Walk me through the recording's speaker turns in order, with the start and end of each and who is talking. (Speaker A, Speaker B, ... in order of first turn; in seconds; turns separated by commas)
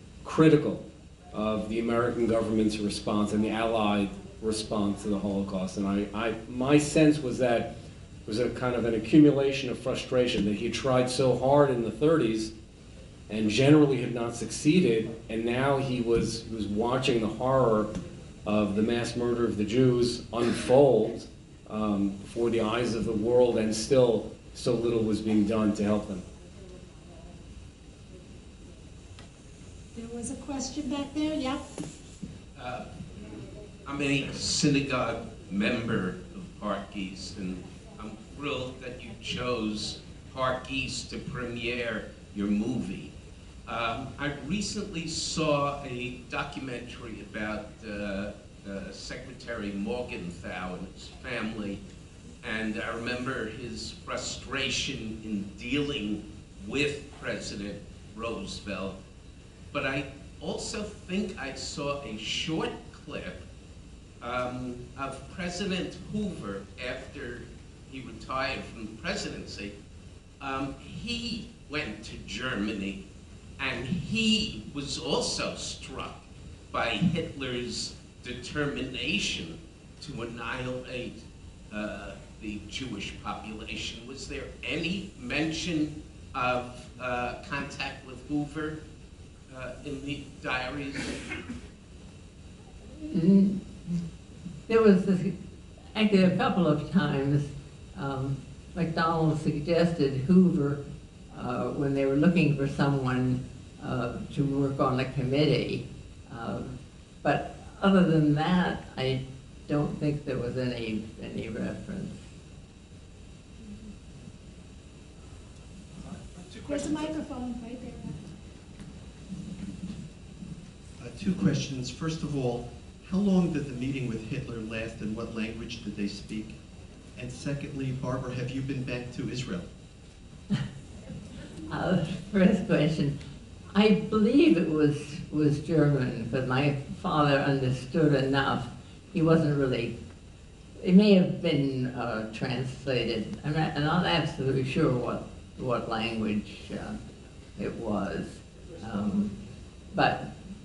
Speaker A: 0.2-7.7, Speaker A: 8.3-12.5, Speaker A: 13.3-17.9, Speaker A: 18.4-26.2, Speaker B: 29.9-31.7, Speaker C: 32.6-32.9, Speaker C: 33.9-43.1, Speaker C: 43.7-51.8, Speaker C: 52.4-59.0, Speaker C: 59.7-63.5, Speaker C: 64.2-69.7, Speaker C: 70.4-73.0, Speaker C: 73.6-88.8, Speaker C: 89.5-91.2, Speaker D: 93.0-94.0, Speaker D: 94.7-95.3, Speaker D: 96.0-100.8, Speaker D: 101.3-112.2, Speaker B: 116.7-118.3, Speaker E: 121.0-126.6, Speaker E: 127.2-129.7, Speaker D: 131.7-133.2, Speaker D: 133.7-139.9, Speaker D: 140.8-147.0, Speaker D: 147.6-149.3, Speaker D: 149.9-150.3